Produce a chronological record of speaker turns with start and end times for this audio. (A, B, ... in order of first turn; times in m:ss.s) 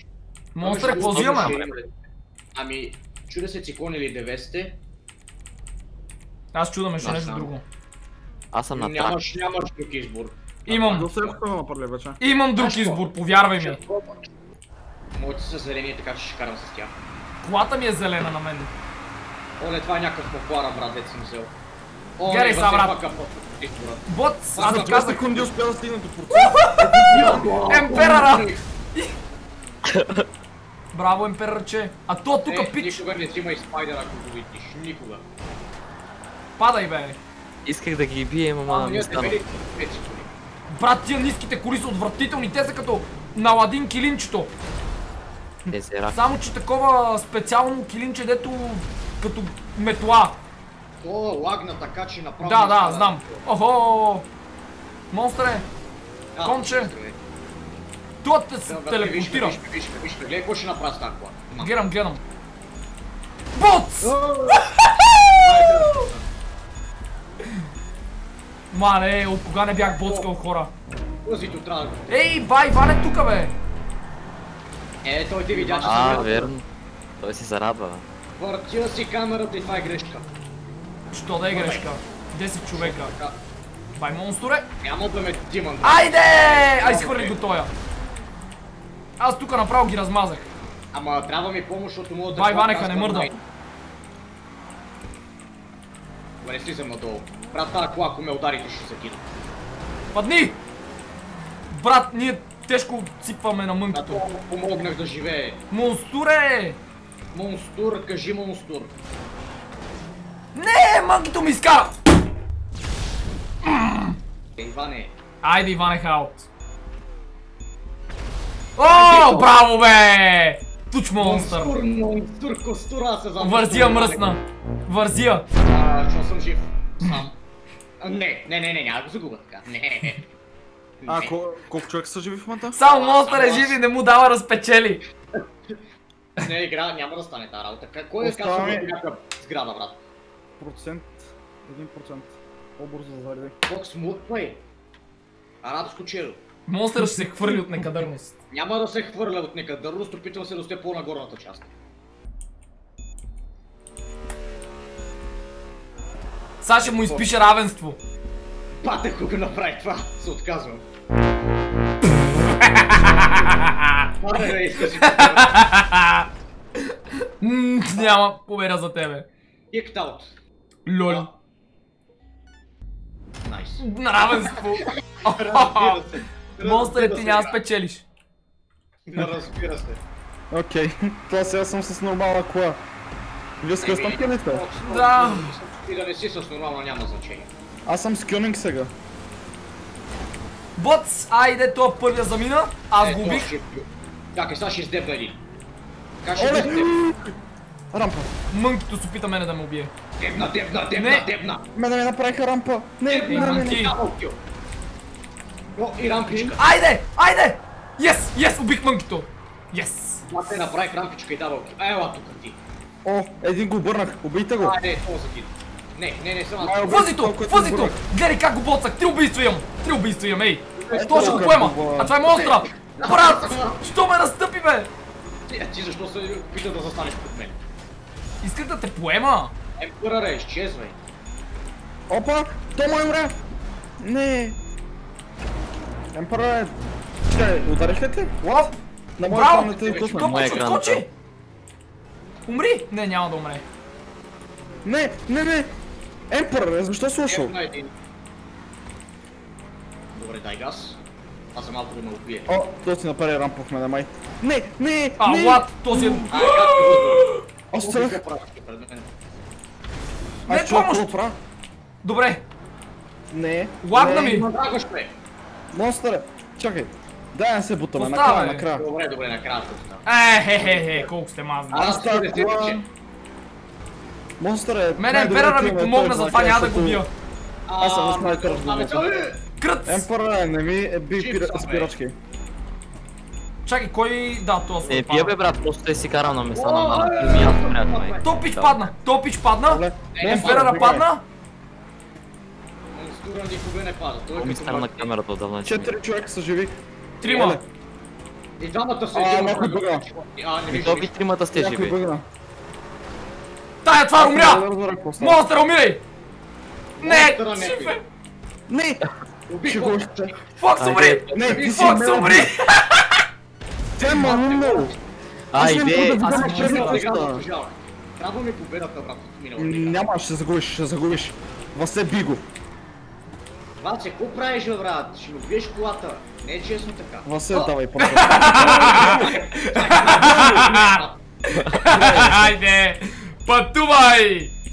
0:00.6-0:01.6 A
0:00.6-0:01.9 B
0:01.0-0:01.7 C
0:02.6-0:04.8 B
0:06.5-0:07.6 A
0:07.0-0:07.5 B
0:08.5-0:09.2 C
0:08.7-0:11.4 B
0:10.7-0:11.1 A
0:10.8-0:12.2 D
0:12.2-0:13.8 A
0:12.6-0:14.3 B
0:15.1-0:16.9 B
0:17.4-0:18.7 A
0:19.6-0:21.5 B
0:22.2-0:25.5 B
0:22.2-0:23.0 A
0:24.1-0:25.2 A
0:24.6-0:27.4 D
0:26.4-0:29.1 A
0:26.8-0:28.6 B
0:30.0-0:30.2 C
0:30.9-0:33.0 A
0:32.5-0:35.2 B
0:36.6-0:37.2 A
0:37.6-0:39.4 C
0:38.7-0:40.3 B
0:40.7-0:44.5 A
0:45.7-0:50.4 A
0:45.7-0:46.2 C
0:51.0-0:53.4 B
0:52.4-0:54.3 A
0:55.1-0:55.7 A
0:56.4-0:57.2 B
0:56.4-0:56.9 A
0:58.2-0:59.6 A
0:58.7-1:01.8 B
1:01.6-1:02.2 A
1:03.5-1:04.2 A
1:04.0-1:04.7 B
1:04.8-1:05.3 A
1:05.4-1:06.2 B
1:08.7-1:10.7 A
1:09.8-1:10.3 B
1:11.2-1:12.1 B
1:12.1-1:13.5 A
1:15.0-1:16.5 B
1:15.7-1:16.3 D
1:15.8-1:16.6 C
1:17.2-1:18.0 C
1:18.4-1:20.3 B
1:21.1-1:23.1 A
1:21.5-1:21.9 B
1:22.7-1:23.4 B
1:24.0-1:24.7 A
1:24.8-1:27.4 B
1:25.8-1:27.7 A
1:29.2-1:30.5 A
1:30.9-1:33.4 B
1:32.3-1:33.3 A
1:36.4-1:39.3 B
1:40.1-1:40.6 A
1:41.7-1:44.2 A
1:43.9-1:45.6 B
1:45.7-1:46.8 A
1:47.3-1:48.9 B
1:50.6-1:51.9 A
1:53.6-1:54.2 A
1:54.6-1:55.2 B
1:55.4-1:56.5 A
1:58.8-2:01.8 A
1:58.8-1:59.6 B
2:01.2-2:04.4 B
2:03.4-2:05.5 A
2:05.6-2:07.4 B
2:08.0-2:10.2 B
2:11.0-2:11.4 B
2:11.1-2:12.8 D
2:12.8-2:15.0 A
2:12.8-2:13.8 B
2:16.4-2:20.0 B
2:18.2-2:18.9 D
2:20.6-2:23.6 D
2:23.7-2:24.6 B
2:25.6-2:26.4 B
2:26.7-2:28.4 A
2:27.2-2:27.8 D
2:28.5-2:31.7 B
2:36.6-2:38.0 A
2:36.8-2:37.3 B
2:38.8-2:40.8 B
2:42.6-2:44.0 A
2:44.2-2:45.6 B
2:45.2-2:46.2 A
2:47.4-2:49.3 A
2:49.7-2:50.3 B
2:50.9-2:51.3 A
2:51.0-2:51.3 B
2:53.4-2:57.6 B
2:53.8-2:58.0 A
2:59.1-3:00.0 B
3:00.5-3:02.8 D
3:03.6-3:04.6 D
3:03.8-3:07.5 B
3:04.9-3:05.5 A
3:07.8-3:08.9 D
3:10.8-3:13.5 A
3:13.0-3:15.4 B
3:16.2-3:16.9 B
3:16.4-3:17.3 D
3:17.9-3:18.3 D
3:18.5-3:19.9 A
3:20.2-3:21.6 B
3:21.0-3:21.3 A
3:21.8-3:23.8 D
3:23.1-3:24.4 B
3:23.3-3:24.0 A
3:25.8-3:26.7 B
3:26.6-3:30.2 A
3:30.2-3:32.6 B
3:33.0-3:34.8 D
3:34.6-3:37.0 B
3:36.6-3:38.0 D
3:36.9-3:44.9 A
3:40.8-3:43.8 B
3:40.9-3:42.2 D
3:45.5-3:47.6 B
3:48.4-3:49.5 A
3:49.8-3:51.0 B
3:52.1-3:53.4 D
3:54.0-3:54.6 D
3:56.1-3:56.8 D
3:57.3-4:00.4 D
3:59.2-4:01.1 A
3:59.8-4:00.7 B
4:00.2-4:01.0 C
4:02.5-4:03.6 A
4:04.8-4:05.7 D
4:06.3-4:07.6 D
4:07.3-4:07.9 B
4:10.2-4:11.0 B
4:11.5-4:12.5 B
4:12.5-4:16.3 D
4:15.2-4:17.4 A
4:16.3-4:19.1 B
4:17.7-4:18.2 D
4:20.5-4:21.4 D
4:20.5-4:21.1 A
4:22.0-4:22.4 A
4:23.3-4:24.4 D
4:23.8-4:24.5 A
4:24.0-4:25.1 B
4:25.7-4:28.9 D
4:28.0-4:28.7 A
4:28.7-4:31.1 B
4:30.1-4:31.9 A
4:31.7-4:32.8 B
4:31.8-4:32.8 D
4:34.4-4:37.0 D
4:35.0-4:37.1 A
4:37.7-4:39.4 B
4:37.8-4:39.1 D
4:39.6-4:40.1 A
4:39.9-4:42.2 D
4:41.2-4:41.9 B
4:43.6-4:45.4 A
4:44.8-4:48.9 C
4:46.5-4:48.4 B
4:48.2-4:51.2 A
4:49.6-4:51.1 D
4:50.2-4:50.9 B
4:52.9-4:55.1 B
4:54.4-4:56.0 C
4:55.6-4:57.6 D
4:57.2-4:57.6 A
4:58.6-5:01.2 B
4:59.1-5:00.0 D
5:00.7-5:01.9 C
5:01.5-5:02.2 D
5:03.8-5:04.7 A
5:04.2-5:05.4 D
5:05.2-5:06.0 A
5:07.0-5:08.0 B
5:07.0-5:08.0 A
5:08.7-5:09.0 D
5:09.5-5:10.4 B
5:09.6-5:10.3 D
5:10.6-5:13.2 A
5:10.8-5:11.6 C
5:11.3-5:12.5 D
5:11.4-5:12.0 B
5:14.0-5:15.0 D
5:14.0-5:15.0 B
5:15.5-5:16.4 C
5:15.5-5:17.4 D
5:16.2-5:20.1 B
5:16.2-5:17.0 A
5:19.6-5:22.4 D
5:23.8-5:27.7 B
5:27.2-5:29.4 D
5:28.0-5:30.9 A
5:28.5-5:31.2 B
5:30.1-5:30.6 D
5:31.6-5:34.5 A
5:31.7-5:32.6 D